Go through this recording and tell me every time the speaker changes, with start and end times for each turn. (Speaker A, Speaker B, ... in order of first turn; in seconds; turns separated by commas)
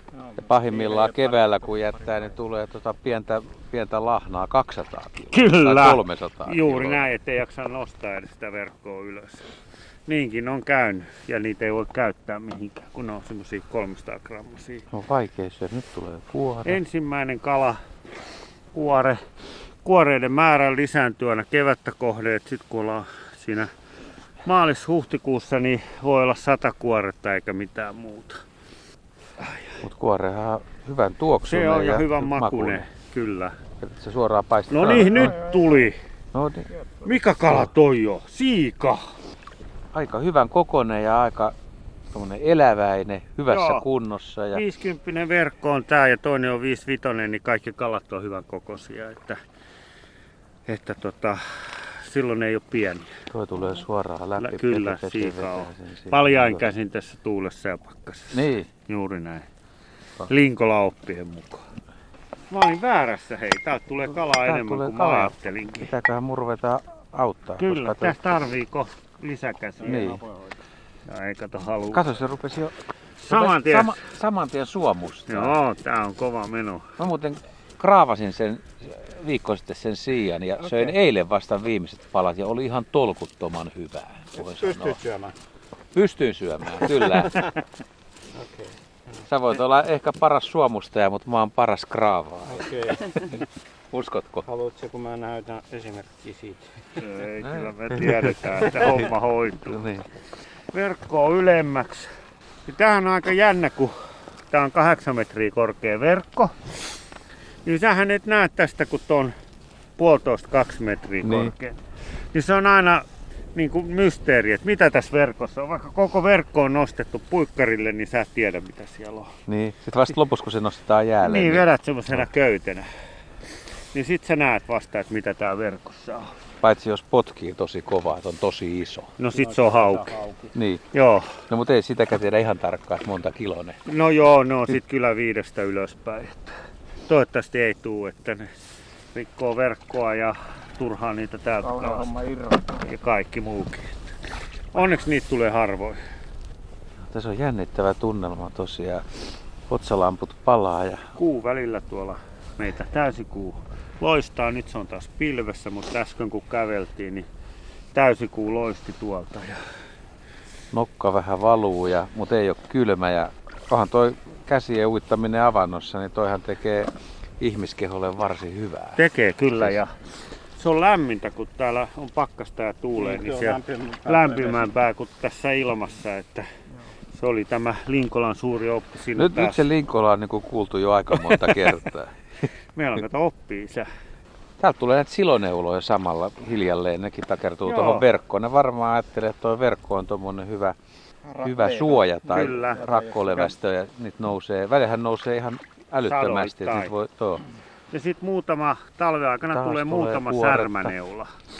Speaker A: 0.1-2.2, Speaker B: 0.4-7.1, Speaker C: 5.3-9.4, Speaker C: 10.1-14.8, Speaker B: 14.9-16.8, Speaker C: 16.6-17.8, Speaker C: 18.7-19.2, Speaker C: 19.8-23.7, Speaker C: 24.4-28.4, Speaker C: 29.4-29.8, Speaker B: 29.8-32.8, Speaker C: 31.4-33.5, Speaker B: 33.8-35.4, Speaker C: 34.7-36.0, Speaker A: 35.1-35.7, Speaker B: 36.3-36.7, Speaker C: 37.0-39.0, Speaker B: 39.9-41.5, Speaker B: 42.1-44.6, Speaker C: 43.5-43.8, Speaker C: 44.5-49.4, Speaker C: 50.7-53.1, Speaker B: 53.3-56.7, Speaker C: 54.4-59.5, Speaker B: 58.3-58.7, Speaker C: 60.3-61.6, Speaker C: 62.5-65.9, Speaker B: 64.2-68.2, Speaker C: 67.6-70.1, Speaker A: 69.8-70.5, Speaker B: 69.8-70.2, Speaker C: 71.1-72.0, Speaker B: 71.9-72.7, Speaker C: 73.2-74.0, Speaker B: 73.3-75.6, Speaker C: 75.3-76.9, Speaker B: 77.0-85.0, Speaker A: 84.3-85.3, Speaker B: 85.9-87.5, Speaker A: 88.3-88.7, Speaker B: 89.3-93.3, Speaker A: 92.5-93.4, Speaker B: 93.9-94.5, Speaker A: 94.4-96.7, Speaker C: 97.0-99.8, Speaker B: 97.4-99.1, Speaker B: 99.6-100.1, Speaker C: 100.7-102.1, Speaker C: 102.7-104.0, Speaker C: 104.5-106.7, Speaker C: 107.7-109.3, Speaker C: 110.0-111.8, Speaker B: 111.2-111.5, Speaker C: 112.3-119.3, Speaker B: 119.5-122.3, Speaker C: 121.2-122.9, Speaker C: 123.9-126.4, Speaker B: 126.6-129.2, Speaker C: 129.2-130.1, Speaker A: 129.3-130.5, Speaker B: 130.5-130.8, Speaker C: 130.9-131.4, Speaker B: 131.5-133.8, Speaker C: 133.8-136.6, Speaker C: 137.1-138.5, Speaker C: 139.1-142.1, Speaker A: 141.6-142.9, Speaker C: 142.8-144.1, Speaker C: 144.7-146.0, Speaker B: 147.0-149.1, Speaker B: 149.7-151.2, Speaker C: 151.2-157.3, Speaker C: 157.9-159.6, Speaker B: 160.7-169.8, Speaker C: 168.9-170.0, Speaker C: 170.6-176.5, Speaker A: 173.0-174.7, Speaker C: 177.1-179.6, Speaker B: 179.2-182.1, Speaker C: 182.7-183.9, Speaker B: 184.6-190.8, Speaker C: 187.7-188.1, Speaker A: 191.2-193.5, Speaker B: 191.4-197.4, Speaker C: 192.3-192.8, Speaker C: 196.0-196.9, Speaker C: 197.9-201.3, Speaker B: 199.5-200.9